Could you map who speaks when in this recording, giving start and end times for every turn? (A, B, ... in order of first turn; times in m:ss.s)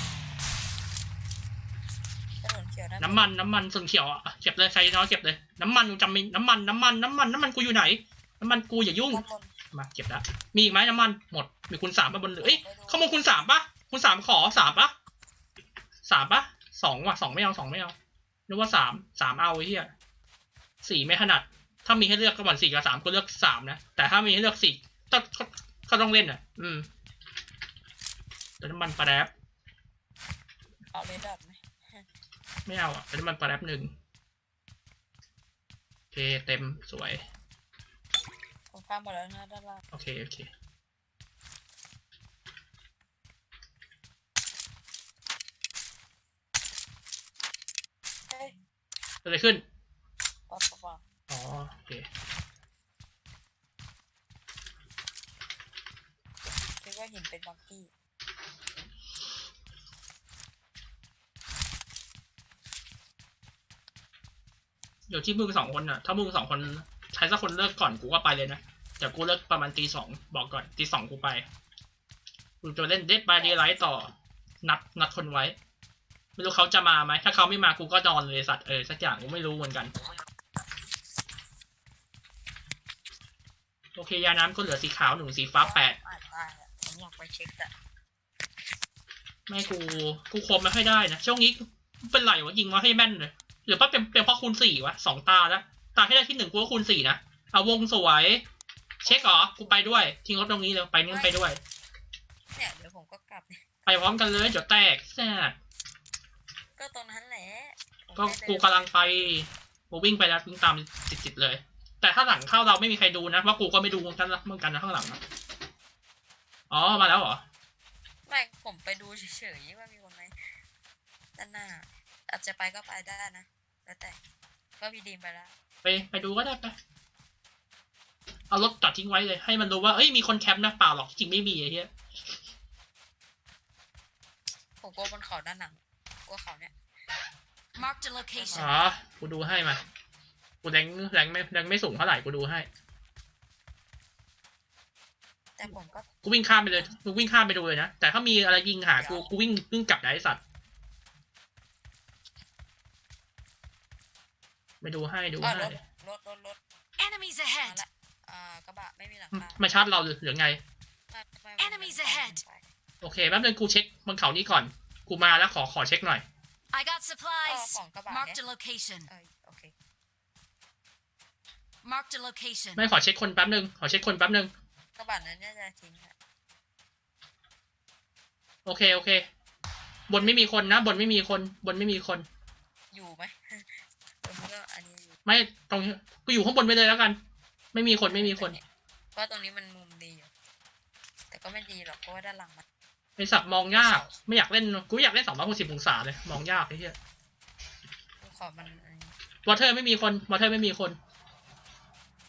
0:02.4-0:03.3 A
0:03.0-0:09.2 B
0:09.1-0:09.6 A
0:09.7-0:14.9 B
0:12.4-0:13.3 A
0:16.0-0:17.9 B
0:18.5-0:19.9 B
0:20.8-0:26.9 B
0:28.6-0:29.3 B
0:30.9-0:32.0 A
0:32.6-0:33.9 B
0:36.1-0:37.2 B
0:38.7-0:39.8 A
0:39.9-0:40.5 B
0:48.3-0:48.6 A
0:49.2-0:49.6 B
0:50.5-0:51.0 A
0:51.3-0:52.1 B
0:56.4-0:57.9 A
1:05.1-1:11.4 B
1:12.6-1:14.1 B
1:13.4-1:13.7 A
1:14.6-1:15.6 B
1:16.4-1:19.9 B
1:24.0-1:26.0 B
1:25.6-1:27.7 A
1:29.5-1:38.4 B
1:39.0-1:41.6 B
1:39.0-1:40.0 A
1:41.1-1:41.4 A
1:42.5-1:43.7 A
1:43.8-1:45.6 B
1:46.8-1:49.4 A
1:48.2-1:55.2 B
1:56.7-1:57.4 B
1:58.2-2:00.4 A
2:01.4-2:04.2 A
2:04.8-2:05.5 A
2:05.8-2:06.8 B
2:08.5-2:11.9 B
2:14.8-2:16.7 A
2:17.8-2:18.7 C
2:18.2-2:18.9 A
2:18.5-2:19.8 B
2:20.6-2:22.7 B
2:25.6-2:26.1 A
2:26.2-2:30.4 B
2:29.0-2:29.3 A
2:34.8-2:35.8 B
2:35.4-2:36.6 A
2:37.0-2:37.7 C
2:37.6-2:39.6 A
2:39.3-2:40.6 B
2:41.1-2:42.6 A
2:41.8-2:42.4 C
2:43.0-2:46.2 B
2:46.7-2:49.1 C
2:47.4-2:48.4 A
2:49.0-2:49.7 A
2:51.8-2:52.8 C
2:52.8-2:54.5 B
2:55.0-2:56.1 A
2:58.6-2:59.3 B
3:00.1-3:02.2 B
3:00.1-3:00.5 A
3:02.9-3:05.2 A
3:05.2-3:07.2 B
3:07.7-3:08.6 B
3:08.0-3:08.6 A
3:09.1-3:10.3 A
3:11.3-3:12.6 A
3:13.2-3:17.0 B
3:13.7-3:14.2 A
3:18.2-3:19.2 A
3:19.4-3:21.0 B